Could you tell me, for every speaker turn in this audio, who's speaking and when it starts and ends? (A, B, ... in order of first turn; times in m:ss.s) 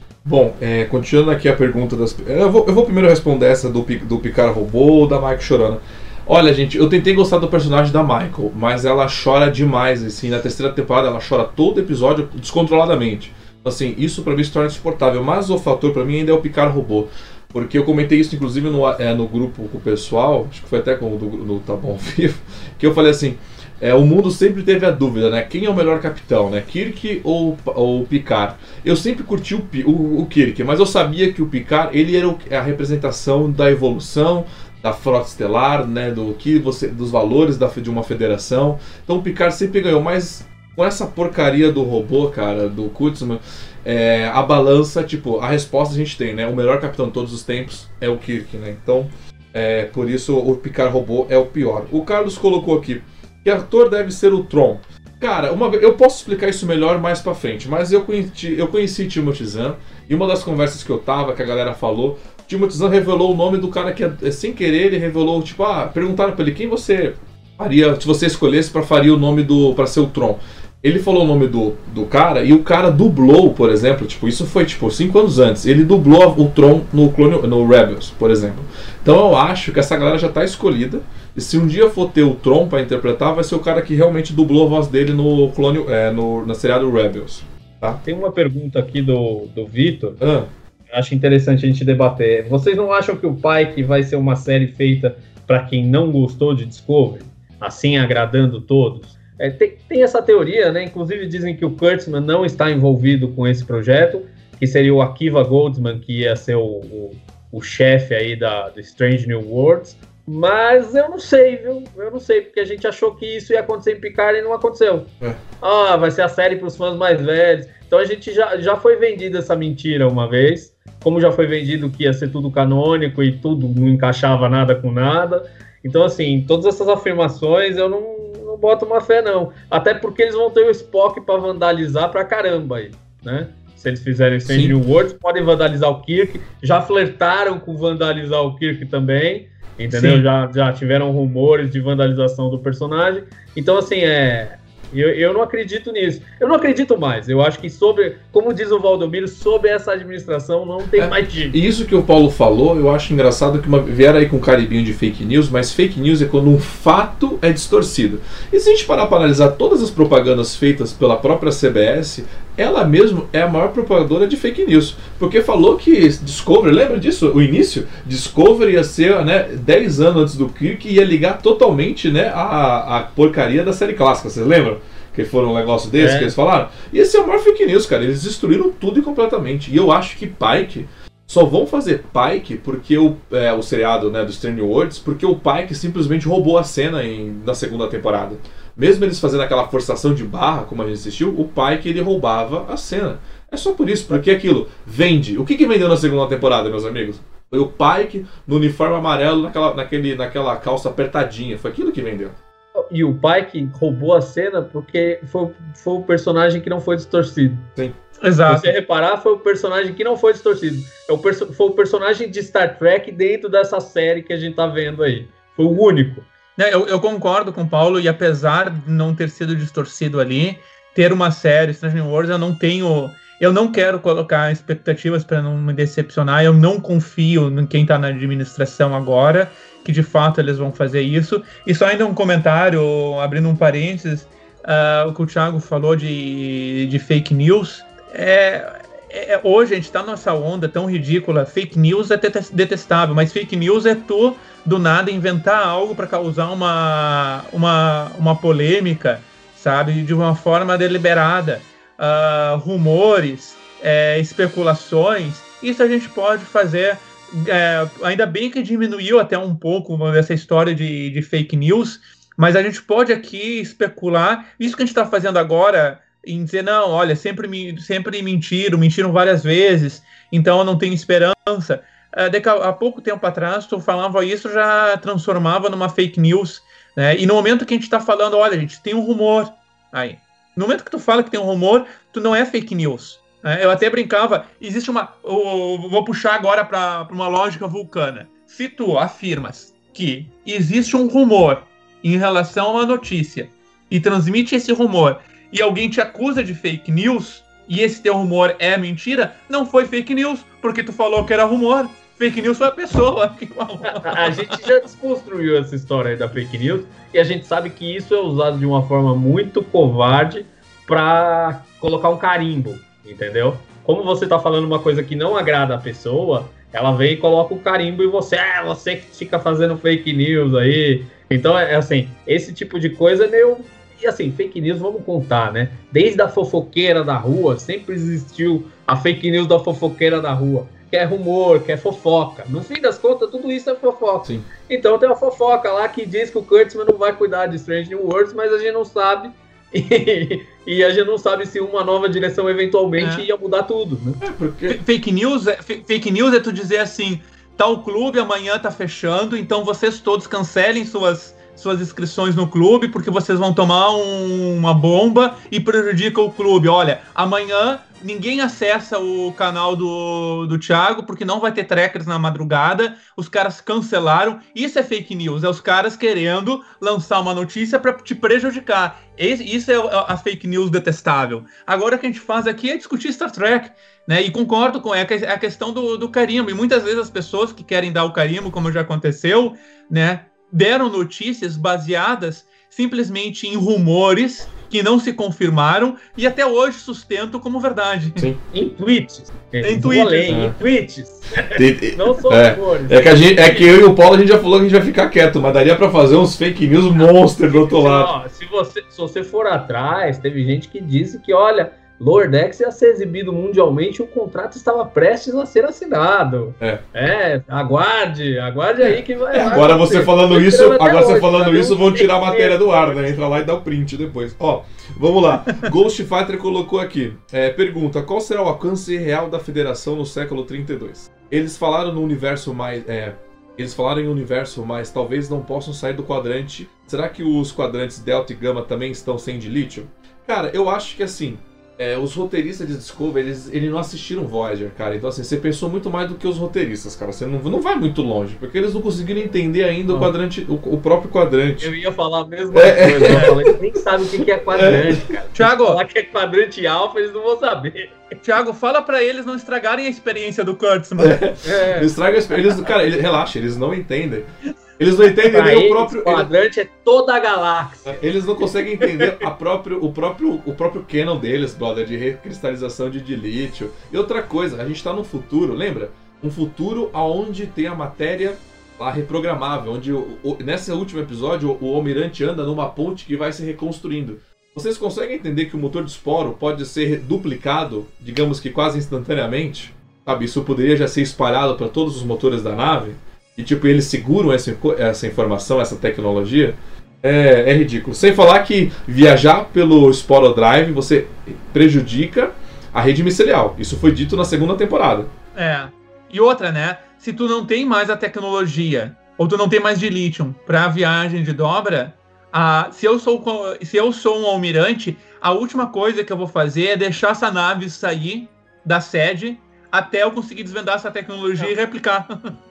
0:00.2-1:28.0 A
1:28.0-1:30.2 B
1:30.2-1:30.5 A
1:30.9-2:31.6 B
2:14.4-2:14.8 A
2:19.9-2:20.2 C
2:31.0-3:22.4 A
2:56.0-2:56.3 B
3:22.7-3:27.7 B
3:28.2-3:28.7 C
3:28.5-3:36.3 B
3:36.6-5:04.6 C
5:03.9-5:44.2 B
5:43.0-5:43.3 C
5:44.2-5:44.8 A
5:44.7-6:28.3 C
6:28.5-6:33.7 B
6:29.6-6:30.4 C
6:30.3-6:30.6 A
6:31.5-6:38.1 A
6:37.5-6:53.0 B
6:49.3-7:21.7 A
7:21.6-7:28.0 B
7:22.5-7:23.3 A
7:23.1-7:23.3 C
7:24.5-7:25.0 A
7:25.3-7:25.8 C
7:28.2-7:31.2 C
7:31.0-7:36.3 A
7:31.4-7:31.9 B
7:35.2-7:38.0 B
7:37.8-8:15.1 A
7:38.8-7:39.2 B
8:15.3-8:32.4 C